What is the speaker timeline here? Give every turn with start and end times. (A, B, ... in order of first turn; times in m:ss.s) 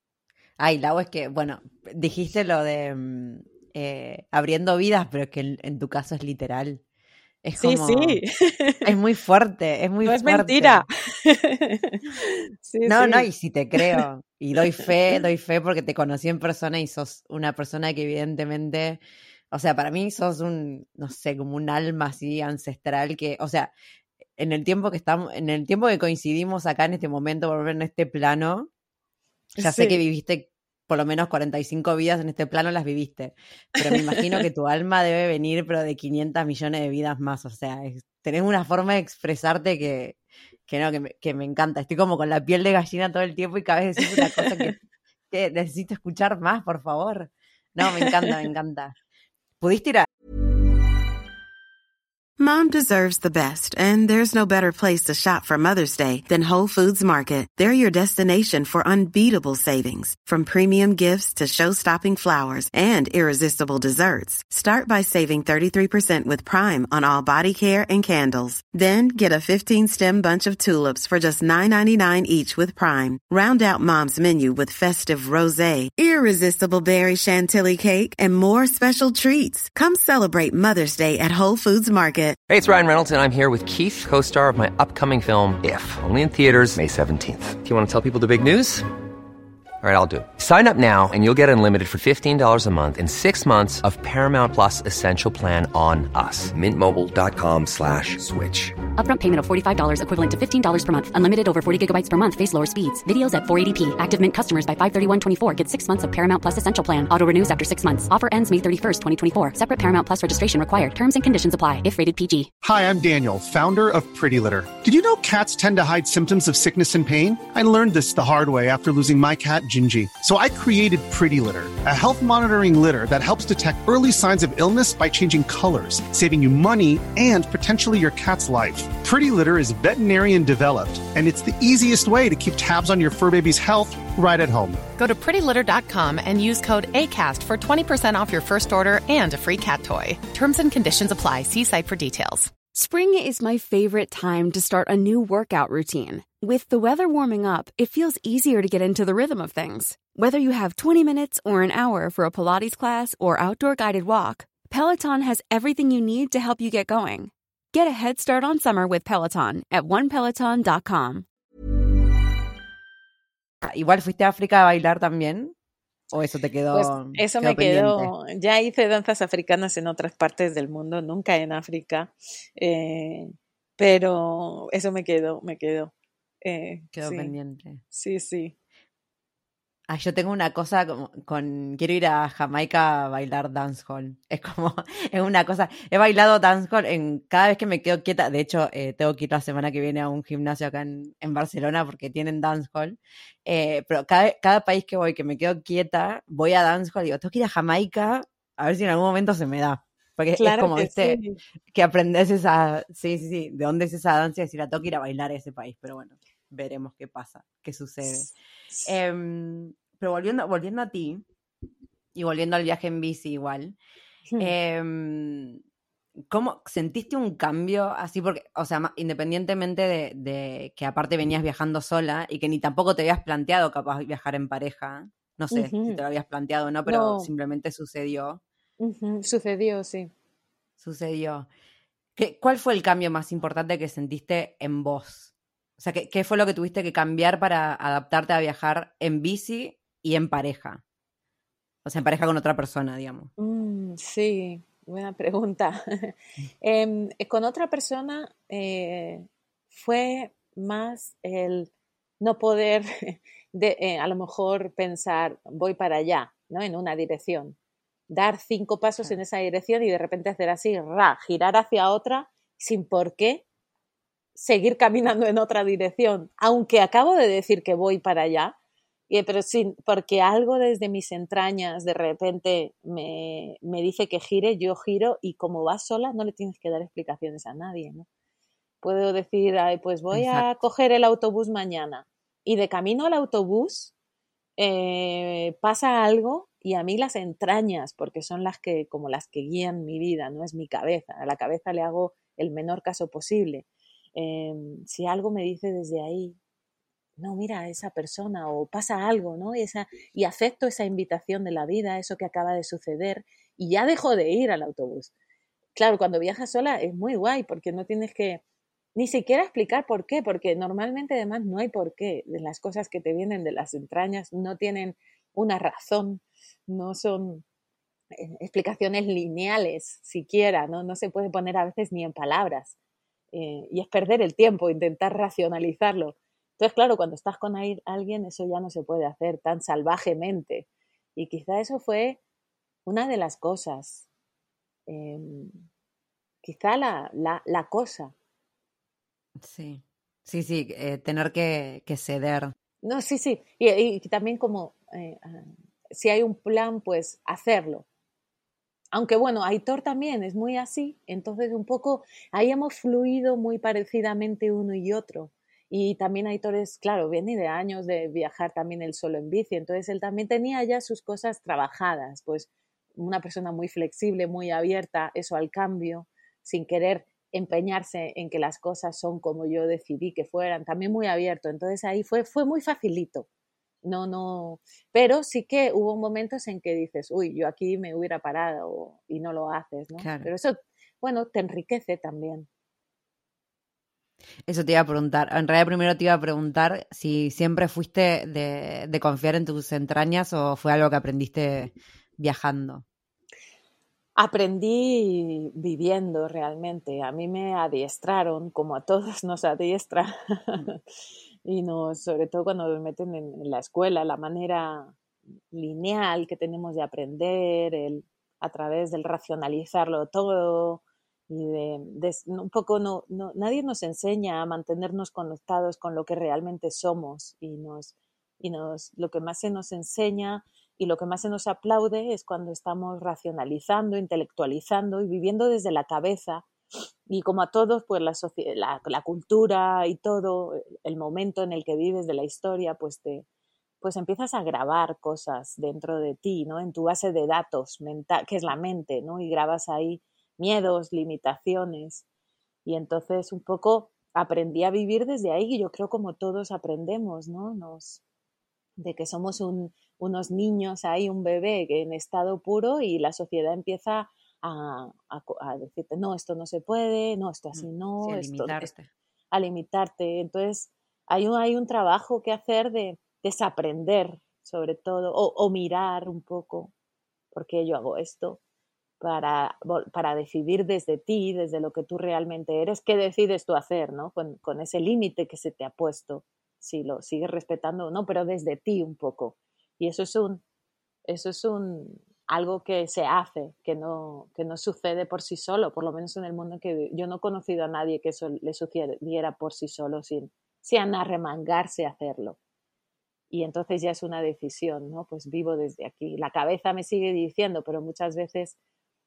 0:00.6-0:06.8 A
0:07.4-0:08.2 A
0:07.6-0:08.9 B
0:08.8-0:10.9 A
0:10.0-0:14.0 B
0:12.9-0:23.7 A
0:24.4-0:28.7 A
0:29.6-0:44.8 A
0:29.6-0:30.0 B
0:44.0-0:44.7 B
0:45.3-0:48.9 A
0:49.6-0:50.1 A
0:52.4-1:22.4 C
1:22.5-1:28.9 D
1:29.8-1:38.8 D
1:39.0-1:52.5 E
1:52.6-2:14.9 F
2:15.0-2:22.6 G
2:22.7-2:41.3 H
2:43.6-2:45.6 A
2:46.1-2:48.1 A
2:46.7-2:57.3 B
2:57.0-2:57.8 A
2:57.9-2:58.6 B
2:59.9-3:21.2 A
3:20.4-3:21.4 B
3:21.7-3:28.3 A
3:28.0-3:28.9 B
3:28.8-3:31.2 A
3:32.1-3:33.8 A
3:34.4-3:35.6 A
3:36.3-3:48.4 A
3:45.5-3:46.0 B
3:46.9-3:47.3 B
3:48.8-3:50.1 B
3:50.8-3:51.5 A
3:52.2-4:00.8 A
4:01.8-4:03.3 A
4:03.4-4:17.6 B
4:18.1-4:23.4 B
4:24.4-4:28.6 B
4:29.1-4:38.1 B
4:38.8-4:43.9 B
4:40.1-4:40.5 A
4:44.6-4:56.4 B
4:57.2-5:05.1 B
5:05.8-5:08.4 B
5:09.0-5:17.4 B
5:18.2-5:22.7 B
5:23.3-5:32.2 B
5:32.9-5:34.0 B
5:34.9-5:35.6 B
5:36.4-5:38.1 B
5:39.4-5:42.5 A
5:42.8-5:47.8 B
5:48.9-6:13.3 B
6:13.8-6:22.5 B
6:20.0-6:20.3 A
6:24.5-6:32.8 A
6:34.2-6:40.8 B
6:41.4-6:45.0 B
6:45.5-7:06.5 B
7:07.1-7:13.3 B
7:13.8-7:22.0 B
7:22.6-7:28.0 B
7:28.8-7:38.7 B
7:37.5-7:38.9 A
7:39.3-7:46.7 B
7:47.3-7:48.4 B
7:49.0-8:00.4 B
8:01.1-8:12.4 B
8:13.3-8:18.6 B